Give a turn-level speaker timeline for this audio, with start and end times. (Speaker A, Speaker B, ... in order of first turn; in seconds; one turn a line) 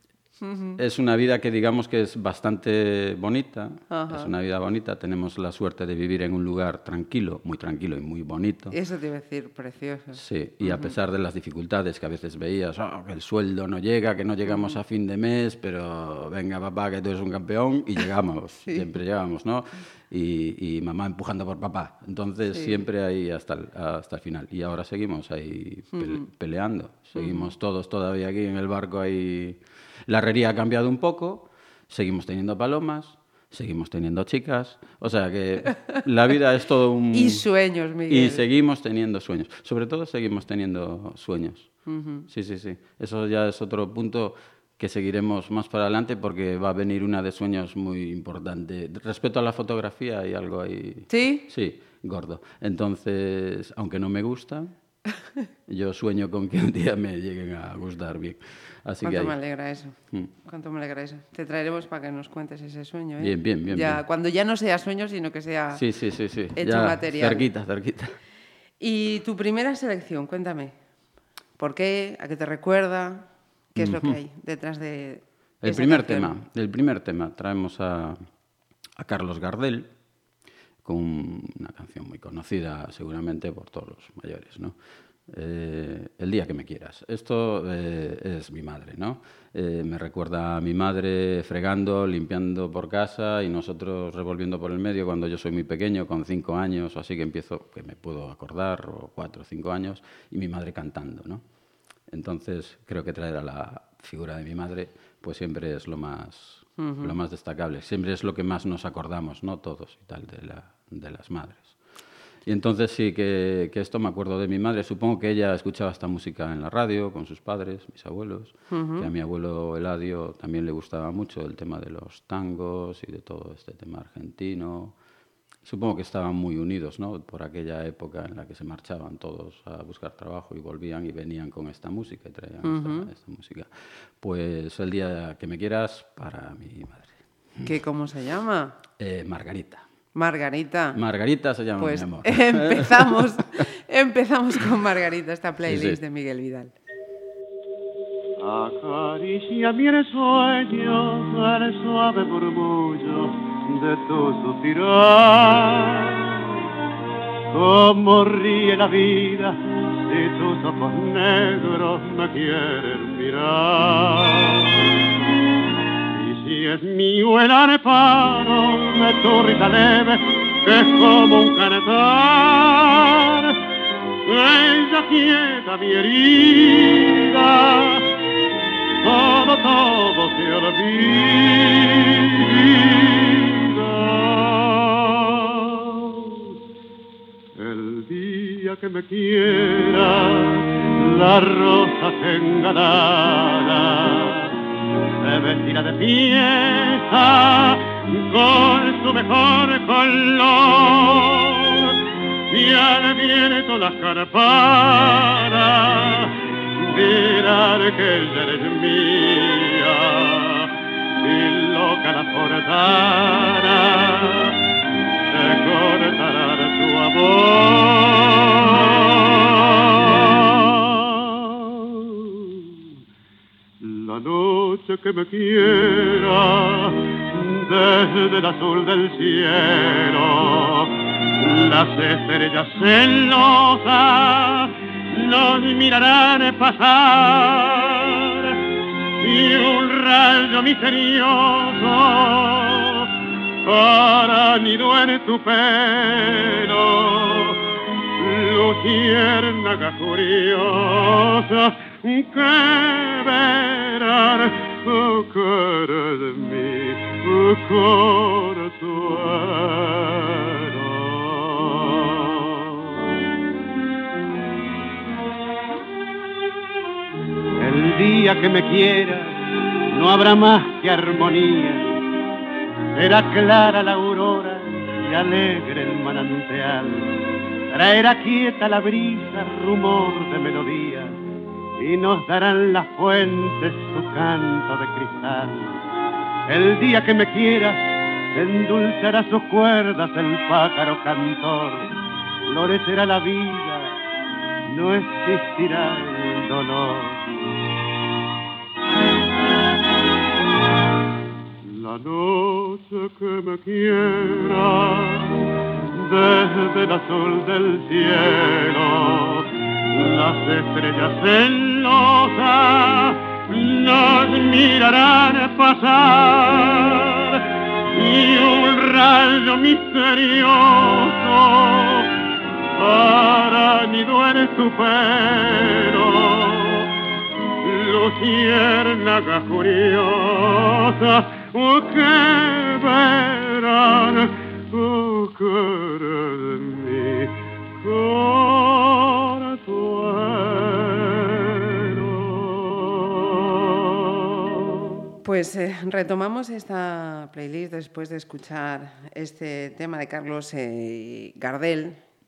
Speaker A: 0.4-0.8
Speaker B: 0.8-8.8
Speaker A: 3.9-4.3
Speaker A: 8.7-10.9
Speaker B: 10.1-37.4
Speaker A: 14.5-14.8
Speaker A: 22.5-22.8
Speaker A: 25.9-26.3
Speaker A: 27.2-27.5
Speaker A: 37.1-38.4
Speaker B: 38.1-41.8
Speaker A: 41.9-42.3
Speaker B: 42.3-54.7
Speaker A: 51.1-51.5
Speaker B: 55.7-59.4
Speaker A: 59.0-65.8
Speaker B: 63.2-64.0
Speaker B: 65.7-68.2
Speaker A: 66.5-67.5
Speaker A: 68.8-70.8
Speaker A: 71.6-76.3
Speaker B: 73.8-74.2
Speaker B: 75.6-78.2
Speaker B: 79.0-79.9
Speaker B: 80.8-84.8
Speaker B: 85.3-101.4
Speaker B: 102.1-111.8
Speaker A: 106.8-107.1
Speaker B: 112.5-125.0
Speaker A: 118.7-119.1
Speaker B: 125.6-137.7
Speaker A: 132.6-133.1
Speaker A: 137.6-138.8
Speaker B: 139.0-139.9
Speaker A: 140.2-141.0
Speaker B: 140.9-143.6
Speaker A: 141.8-146.7
Speaker B: 145.7-146.0
Speaker C: 148.4-156.4
Speaker C: 157.5-164.9
Speaker C: 166.1-173.6
Speaker C: 174.3-178.1
Speaker C: 179.0-186.4
Speaker C: 187.6-194.6
Speaker C: 195.2-202.0
Speaker C: 202.5-214.6
Speaker C: 215.3-222.7
Speaker C: 223.8-238.6
Speaker C: 239.2-243.1
Speaker C: 243.7-247.6
Speaker C: 248.2-262.8
Speaker C: 267.6-269.3
Speaker C: 269.9-271.9
Speaker C: 273.0-277.1
Speaker C: 277.7-281.2
Speaker C: 281.8-285.8
Speaker C: 286.5-287.8
Speaker C: 288.4-291.9
Speaker C: 292.5-293.9
Speaker C: 294.7-297.3
Speaker C: 301.6-305.4
Speaker C: 305.9-317.4
Speaker C: 317.9-322.1
Speaker C: 322.8-326.9
Speaker C: 327.6-344.7
Speaker A: 345.2-352.0